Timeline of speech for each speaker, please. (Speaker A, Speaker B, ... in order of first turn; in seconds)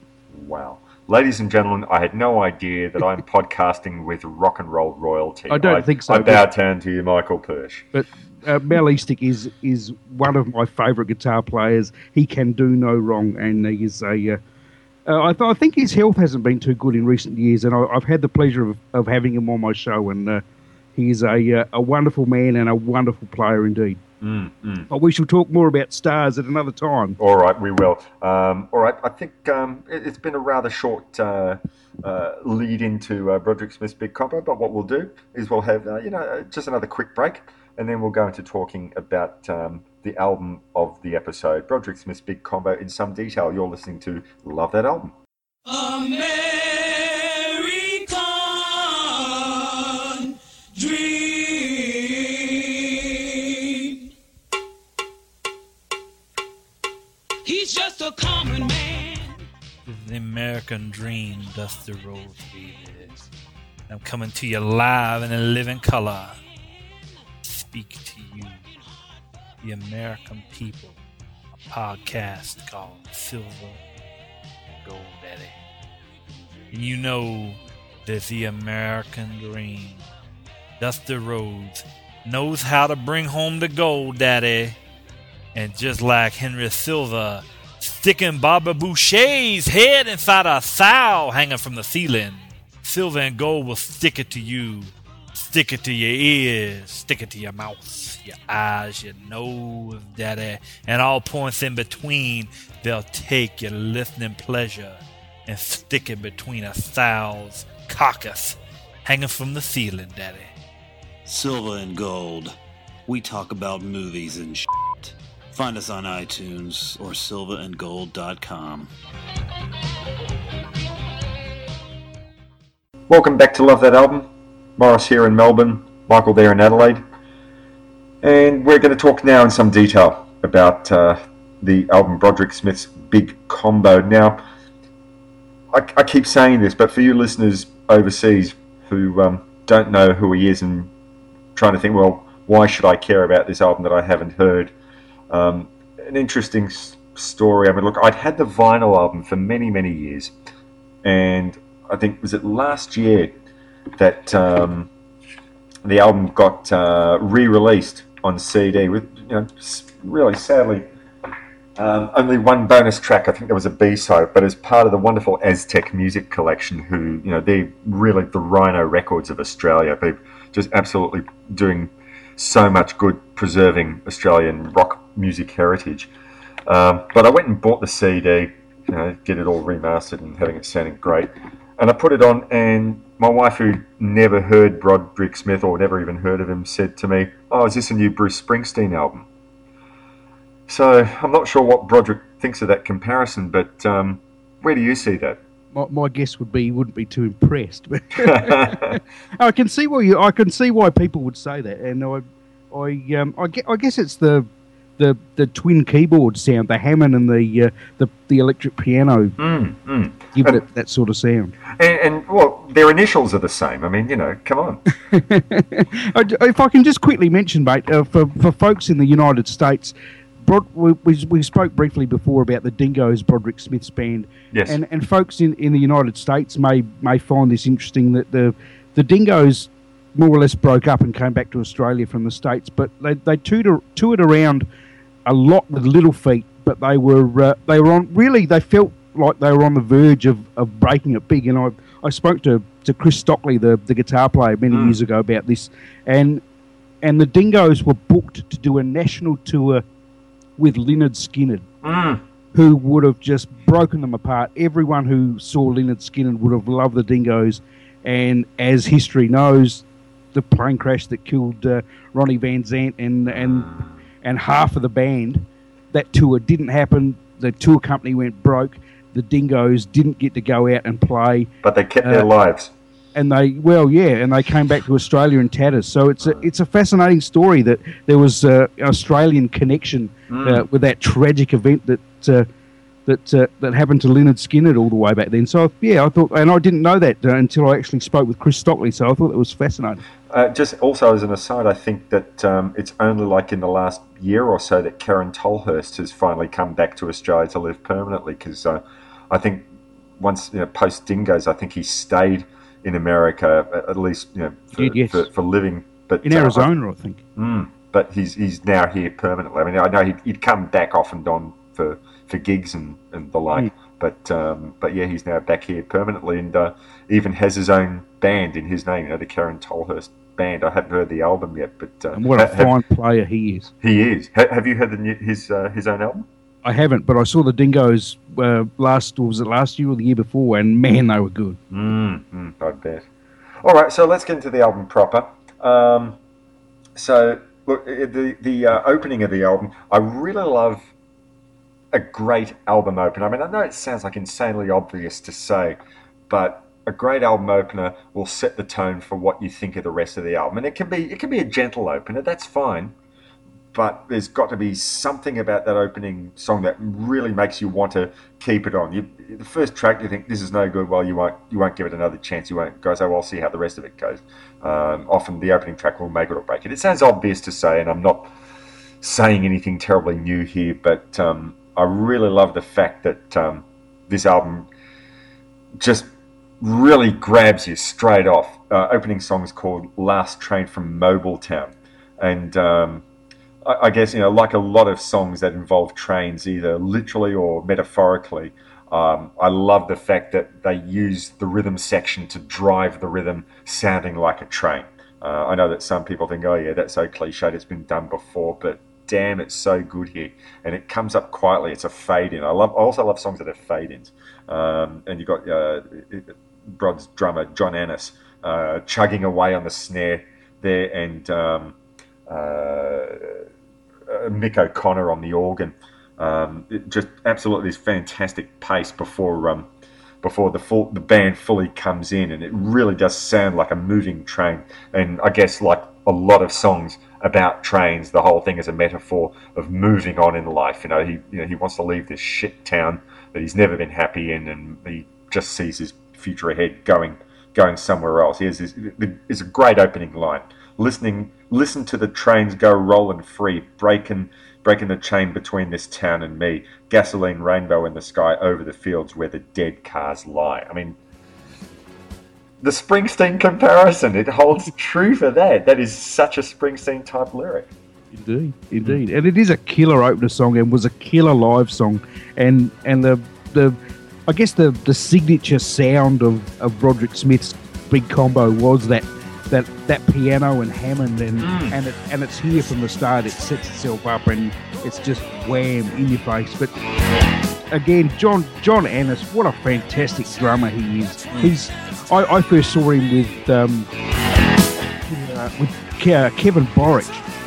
Speaker A: 0.3-7.9, 24.2-24.9, 27.2-45.1, 123.1-127.0, 128.2-134.4, 135.7-140.9, 141.6-144.7, 145.3-150.3, 151.0-153.3, 154.0-154.9, 155.8-160.9, 161.8-176.1, 176.7-189.3, 190.7-195.4, 198.2-199.0, 209.4-210.6, 211.7-214.8, 224.5-224.8, 244.7-245.0, 251.8-252.2, 271.6-272.7, 280.3-280.6, 290.3-299.7, 300.2-306.7, 307.4-322.8, 323.8-326.3, 331.7-333.1, 333.6-336.2, 336.9-340.9, 341.9-345.8, 346.3-352.9, 353.7-368.3, 369.0-374.7, 375.8-383.1, 383.6-411.8, 412.3-413.5, 414.1-419.7, 420.2-451.0, 452.6-457.7, 471.4-471.8
Speaker B: 5.5-6.5, 7.9-14.4, 15.1-20.4, 20.9-24.0, 24.9-27.2, 195.7-209.4, 210.3-211.6, 215.1-234.7, 235.3-246.4, 247.0-249.8, 250.6-251.7, 252.5-271.5, 272.0-272.3, 273.1-282.5, 283.1-290.0, 304.8-305.3, 306.2-307.2, 322.1-323.7, 326.6-331.6, 458.1-476.7, 477.7-483.9, 485.1-487.3
Speaker C: 45.7-54.0, 57.5-59.3
Speaker D: 59.9-63.3, 63.9-66.4, 67.4-68.7, 69.6-71.0, 71.6-73.8, 74.7-75.6, 76.7-80.0, 80.8-84.8, 85.5-110.5
Speaker E: 111.3-112.6, 113.1-118.9